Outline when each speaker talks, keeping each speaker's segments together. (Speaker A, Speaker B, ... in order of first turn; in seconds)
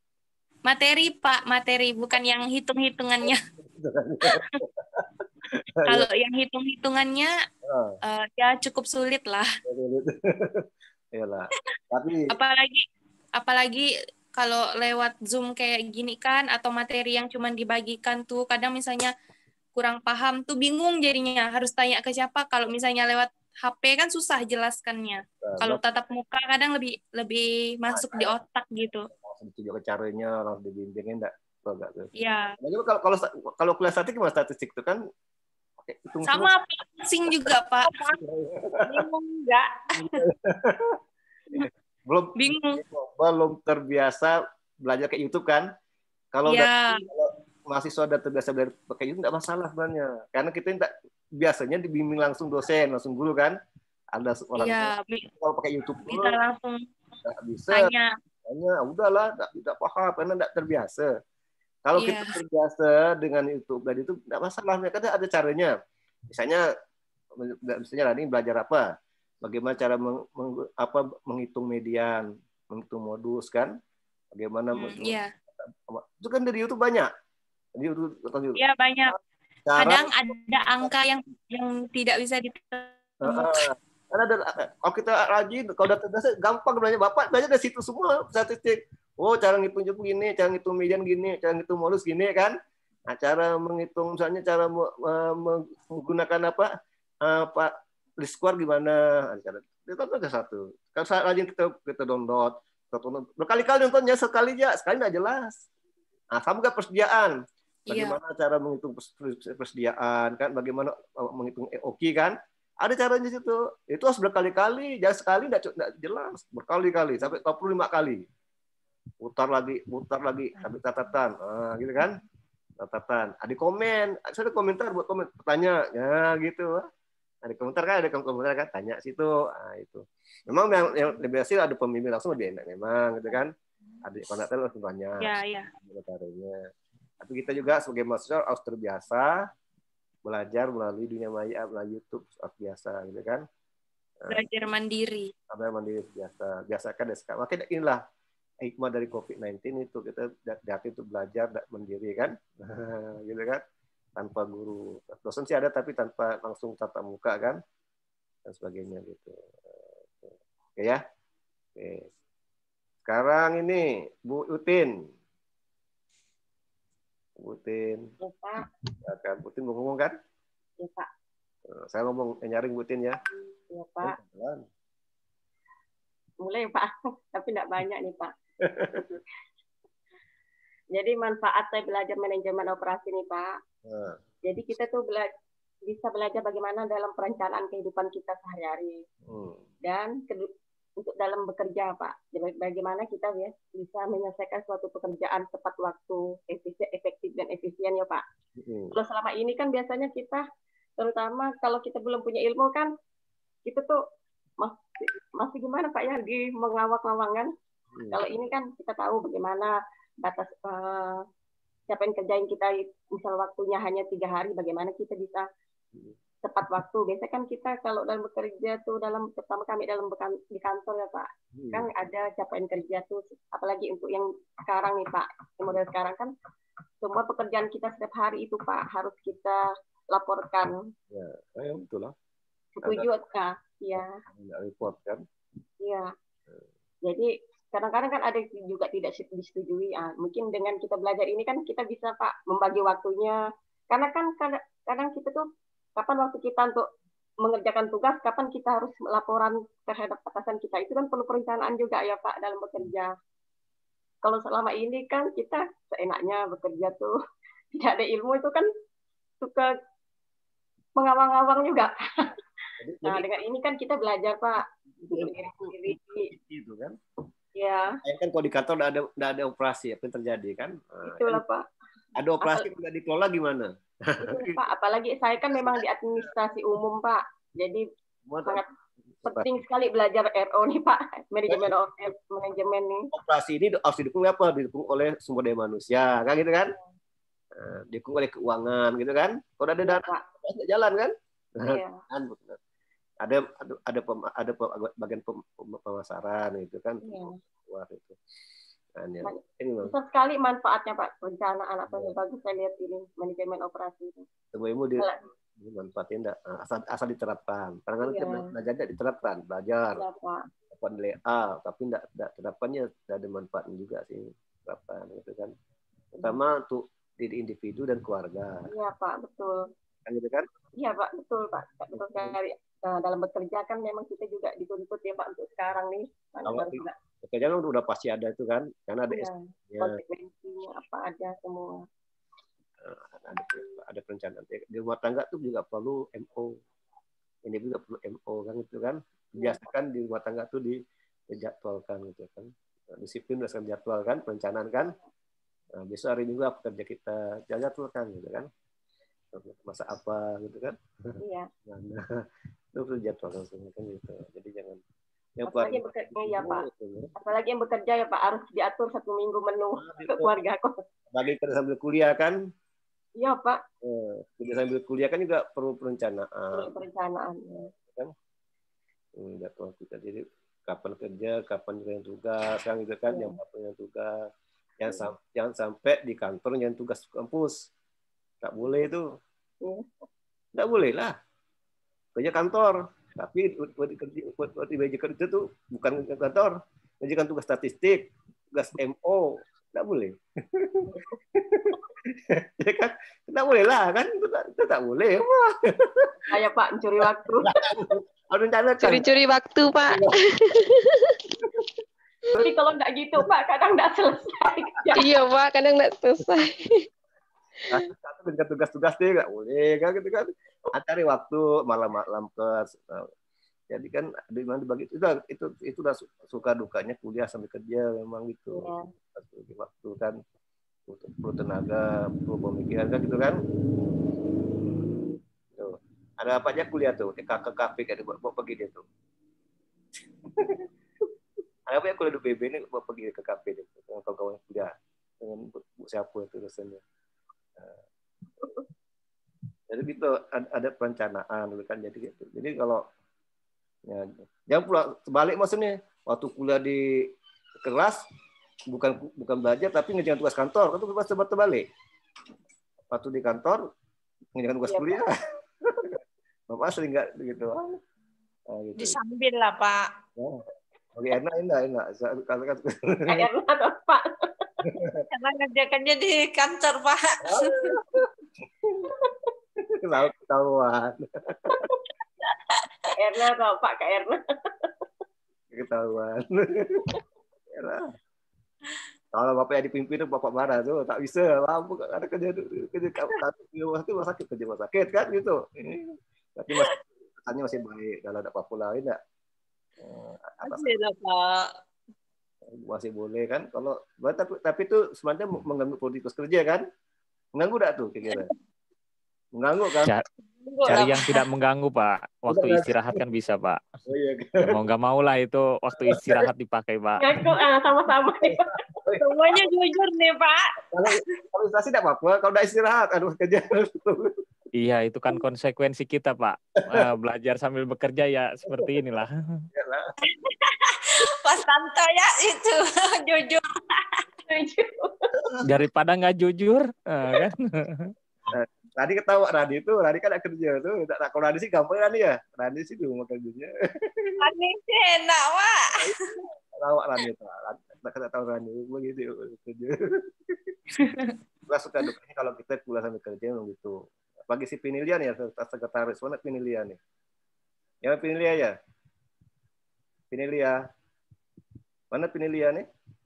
Speaker A: 0.7-3.4, 5.9-7.3, 8.1-9.5, 12.3-12.8, 13.4-19.1, 19.8-29.1, 32.2-32.5, 36.3-38.2, 42.4-42.8, 46.5-47.0, 54.6-55.3, 56.1-56.9, 57.7-58.1, 62.0-62.3, 74.7-75.3, 78.6-79.2, 79.8-83.6, 107.9-108.2, 135.2-135.7, 144.3-145.3
Speaker B: 3.6-6.1, 7.7-8.0, 9.7-12.3, 25.4-25.8, 27.9-28.4, 29.1-35.0, 35.8-36.5, 38.2-39.0, 40.0-41.0, 41.5-45.6, 46.3-53.6, 54.1-56.4, 57.2-57.9, 58.5-61.1, 61.9-65.7, 66.3-66.6, 67.4-68.9, 69.4-73.7, 74.3-77.1, 77.8-78.6, 79.7-80.1, 83.2-92.5, 93.1-96.7, 97.2-105.5, 106.3-107.4, 107.9-118.2, 119.2-122.2, 122.8-126.9, 127.5-133.5, 134.1-136.6, 137.2-139.4, 140.3-143.4, 145.5-148.0, 148.6-153.6, 154.2-157.6, 158.5-159.4, 160.2-161.0, 161.8-162.1, 163.1-164.9, 167.4-168.1, 169.1-170.1, 171.7-173.2, 174.1-174.6, 178.6-179.2, 183.9-184.2, 189.3-189.7, 198.6-198.9, 207.9-208.2, 221.5-221.9, 231.1-232.1, 232.8-233.1, 234.0-235.2, 262.8-263.3, 265.1-265.8, 266.3-267.0, 268.0-271.4, 272.2-274.6, 278.3-278.6, 279.1-279.5, 283.1-286.7, 287.6-292.6, 293.2-298.2, 299.0-299.9, 304.5-310.0, 310.7-315.5, 316.2-318.6, 320.1-320.5, 321.9-322.4, 326.5-330.0, 332.8-336.6, 337.5-340.8, 341.3-345.0, 345.8-348.5, 349.3-350.8, 351.7-352.2, 352.7-354.8, 355.4-357.1, 359.8-360.4, 361.1-362.4, 363.8-366.7, 369.2-374.2, 374.8-377.7, 378.4-379.1, 380.6-381.1, 382.2-396.2, 397.4-399.1, 399.9-400.1, 407.7-413.1, 413.7-420.2, 420.9-423.4, 425.6-428.8, 430.4-430.6, 431.7-434.7, 435.2-436.8, 439.7-442.8, 443.9-447.0, 447.6-448.0, 448.7-451.7, 452.9-453.6, 454.4-455.1, 455.7-455.9, 456.5-457.8, 458.5-459.0, 460.2-460.4, 461.0-463.2, 464.6-465.0, 467.2-468.1, 468.6-468.9, 469.7-471.7, 475.5-476.8, 477.5-477.9, 479.1-489.0, 489.8-490.8, 492.5-496.6, 497.4-498.3, 499.4-499.9, 500.7-500.9, 502.3-503.0, 503.9-504.5, 505.8-506.3, 510.7-514.1, 518.5-519.9, 528.3-534.1, 535.8-540.5, 541.5-546.8, 547.8-548.5, 550.1-550.6, 551.9-552.7
Speaker C: 38.9-39.7, 458.8-459.8, 465.1-467.6, 490.4-491.5, 500.5-501.2, 509.0-510.5, 520.0-523.8, 534.2-536.0
Speaker D: 168.2-168.6, 170.8-171.1, 173.7-174.1, 176.4-178.3, 180.9-183.5, 184.5-185.3, 185.9-189.0, 189.9-198.2, 198.9-200.4, 201.0-202.9, 203.7-204.0, 204.6-207.5, 208.1-209.7, 210.2-211.2, 211.9-215.5, 216.4-226.3, 227.0-229.6, 230.1-230.8, 232.8-234.1, 237.1-243.4, 243.9-245.4, 246.0-246.8, 247.4-253.1, 254.2-257.1, 257.8-258.7, 259.4-259.7, 261.0-262.3, 263.1-264.6, 265.1-266.3, 267.6-267.9, 271.1-271.6, 272.4-272.7, 274.2-277.8, 279.3-283.1, 289.9-290.2, 291.6-292.0, 297.0-297.3, 299.2-304.3, 305.0-305.2, 308.0-308.5, 310.0-310.4, 318.7-319.6, 320.8-326.9, 329.1-331.8, 339.4-339.6, 351.2-351.5, 355.5-356.7, 357.2-360.8, 363.2-363.6, 366.5-367.7, 396.3-397.5, 402.4-405.1, 418.5-418.9, 454.7-455.0, 463.1-464.5, 473.0-474.7, 507.0-508.5, 524.3-525.0
Speaker E: 398.9-399.9, 405.0-406.6
Speaker F: 500.7-503.6, 504.5-507.1, 514.6-519.2, 525.4-527.9